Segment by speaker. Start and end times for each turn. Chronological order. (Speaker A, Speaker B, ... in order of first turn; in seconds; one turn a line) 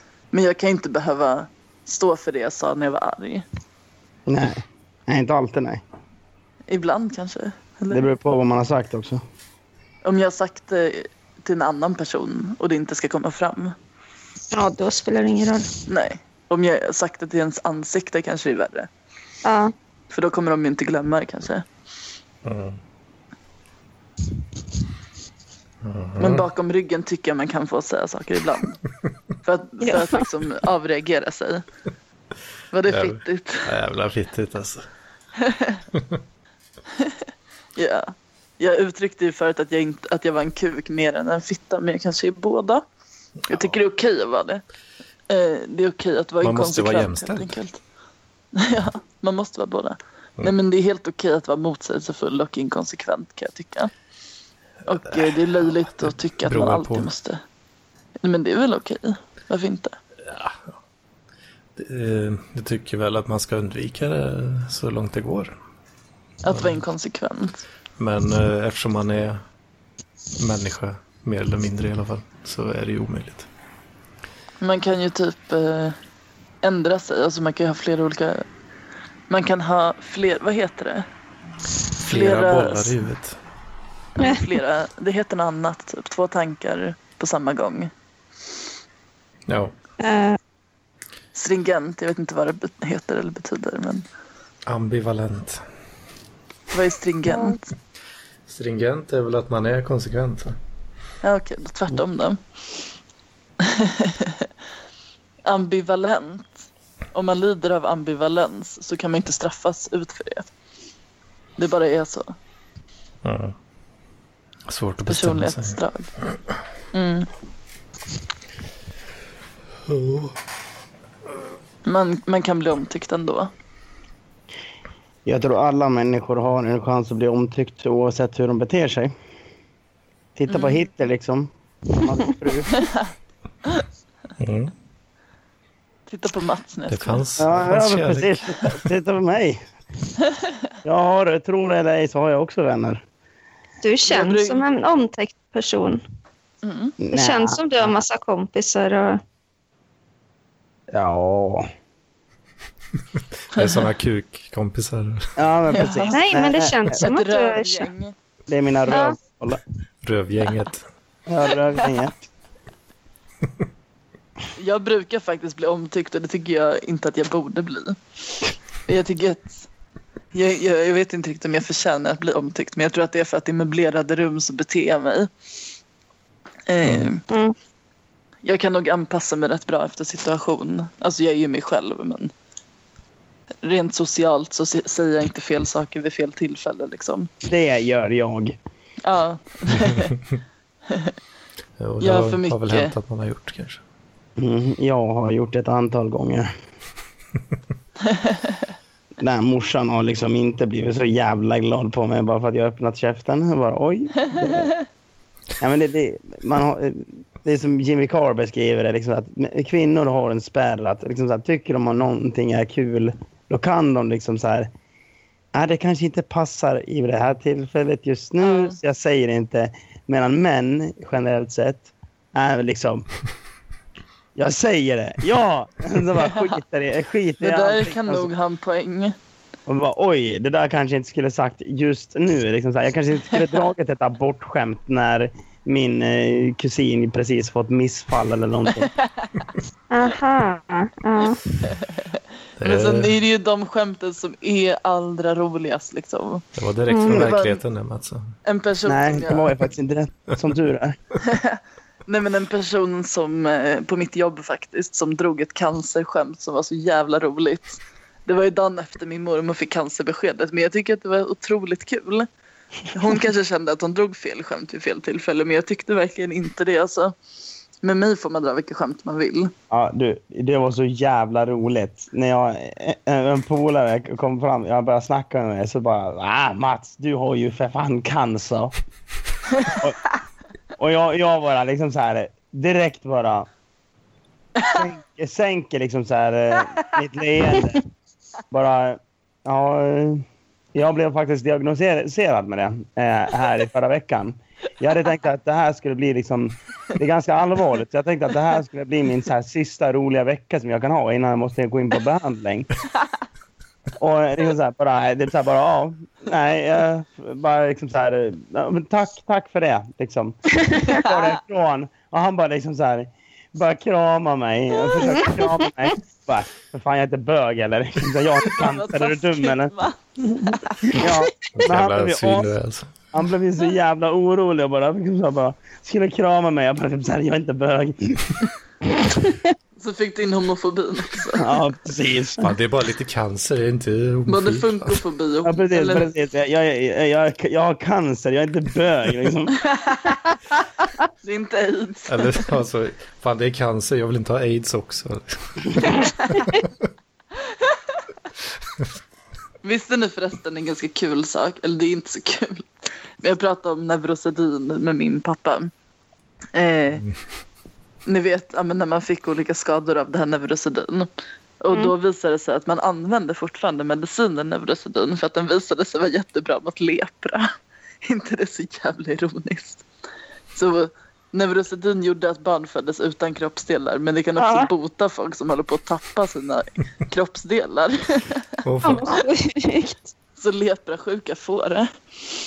Speaker A: 0.3-3.4
Speaker B: 4.3-5.8
Speaker A: 6.7-8.1
Speaker B: 7.9-9.2
Speaker A: 10.0-13.7
Speaker C: 14.5-15.7
Speaker A: 15.8-18.9
Speaker C: 19.4-19.7
Speaker A: 20.1-21.6
Speaker D: 22.4-22.8
Speaker D: 25.8-26.4
Speaker A: 26.2-28.8
Speaker A: 29.4-31.6
Speaker C: 29.8-30.2
Speaker A: 32.7-33.7
Speaker D: 32.9-34.8
Speaker A: 35.4-35.8
Speaker A: 37.0-37.2
Speaker A: 37.8-42.8
Speaker D: 43.5-43.7
Speaker A: 43.5-44.6
Speaker A: 45.3-47.8
Speaker D: 46.4-47.5
Speaker A: 48.5-53.9
Speaker A: 54.9-57.4
Speaker D: 55.1-55.4
Speaker D: 56.0-57.1
Speaker A: 58.2-60.0
Speaker D: 60.2-60.7
Speaker D: 61.8-65.5
Speaker A: 66.4-67.6
Speaker D: 66.5-66.8
Speaker D: 68.0-69.4
Speaker D: 70.4-73.5
Speaker A: 74.6-76.0
Speaker A: 76.6-78.4
Speaker A: 79.3-81.0
Speaker D: 82.0-83.3
Speaker A: 82.0-82.9
Speaker A: 84.2-87.9
Speaker D: 89.5-89.7
Speaker C: 90.0-90.4
Speaker A: 91.3-94.0
Speaker D: 94.7-95.6
Speaker A: 96.7-97.6
Speaker C: 97.3-97.6
Speaker D: 98.5-100.5
Speaker A: 101.2-102.4
Speaker A: 103.6-104.5
Speaker A: 105.4-110.5
Speaker A: 111.6-112.3
Speaker D: 113.2-113.5
Speaker D: 114.7-115.8
Speaker A: 115.1-116.1
Speaker A: 116.9-117.3
Speaker D: 119.9-120.3
Speaker A: 121.8-123.5
Speaker B: 125.2-129.1
Speaker B: 130.3-132.7
Speaker A: 130.5-130.8
Speaker A: 132.7-133.1
Speaker D: 134.4-134.7
Speaker A: 136.1-137.2
Speaker D: 136.9-138.8
Speaker B: 137.4-139.6
Speaker A: 140.2-140.5
Speaker B: 140.8-143.0
Speaker C: 143.8-146.0
Speaker A: 144.1-144.6
Speaker A: 146.6-147.0
Speaker B: 147.0-147.9
Speaker C: 147.1-149.2
Speaker B: 150.9-151.7
Speaker D: 153.5-155.3
Speaker A: 153.5-153.9
Speaker B: 155.3-157.0
Speaker A: 155.7-156.3
Speaker C: 156.1-157.9
Speaker A: 156.9-158.1
Speaker B: 158.5-159.6
Speaker C: 158.9-159.2
Speaker D: 160.0-160.8
Speaker B: 161.3-162.2
Speaker A: 164.6-168.0
Speaker A: 168.9-169.7
Speaker A: 170.3-175.3
Speaker A: 176.7-177.2
Speaker C: 177.3-177.5
Speaker A: 178.4-182.3
Speaker A: 183.6-187.3
Speaker B: 187.4-188.6
Speaker A: 189.0-190.1
Speaker D: 191.8-193.8
Speaker A: 192.0-192.9
Speaker B: 194.4-196.5
Speaker A: 198.0-198.7
Speaker B: 199.2-204.7
Speaker A: 204.2-204.8
Speaker B: 205.6-214.7
Speaker B: 215.5-223.1
Speaker A: 218.4-218.8
Speaker B: 224.3-228.3
Speaker A: 226.2-226.6
Speaker A: 227.4-229.1
Speaker B: 229.7-238.9
Speaker A: 239.0-239.5
Speaker C: 239.9-241.4
Speaker A: 241.7-246.4
Speaker D: 242.6-243.2
Speaker D: 246.6-248.3
Speaker C: 246.9-247.2
Speaker A: 247.1-247.6
Speaker A: 248.4-249.5
Speaker B: 248.8-251.0
Speaker A: 251.2-262.3
Speaker A: 262.9-267.1
Speaker A: 267.8-269.5
Speaker B: 269.7-278.7
Speaker A: 279.5-279.8
Speaker B: 279.7-280.0
Speaker B: 280.8-283.5
Speaker B: 284.6-287.8
Speaker B: 288.5-302.7
Speaker B: 304.0-322.5
Speaker C: 310.6-310.9
Speaker A: 310.9-311.3
Speaker A: 314.7-315.3
Speaker C: 315.1-315.4
Speaker A: 318.4-321.2
Speaker D: 321.6-322.9
Speaker B: 323.1-328.3
Speaker A: 329.8-331.5
Speaker B: 331.4-332.5
Speaker D: 332.4-335.0
Speaker A: 334.3-336.1
Speaker B: 335.4-339.6
Speaker A: 339.7-340.2
Speaker A: 341.2-342.5
Speaker D: 342.1-346.7
Speaker A: 347.4-348.0
Speaker A: 349.6-352.7
Speaker A: 353.2-355.7
Speaker A: 356.5-357.0
Speaker A: 358.1-361.1
Speaker A: 361.6-367.5
Speaker A: 368.0-369.8
Speaker A: 370.5-378.4
Speaker C: 374.4-374.7
Speaker D: 378.6-379.2
Speaker C: 378.8-380.1
Speaker A: 380.4-381.9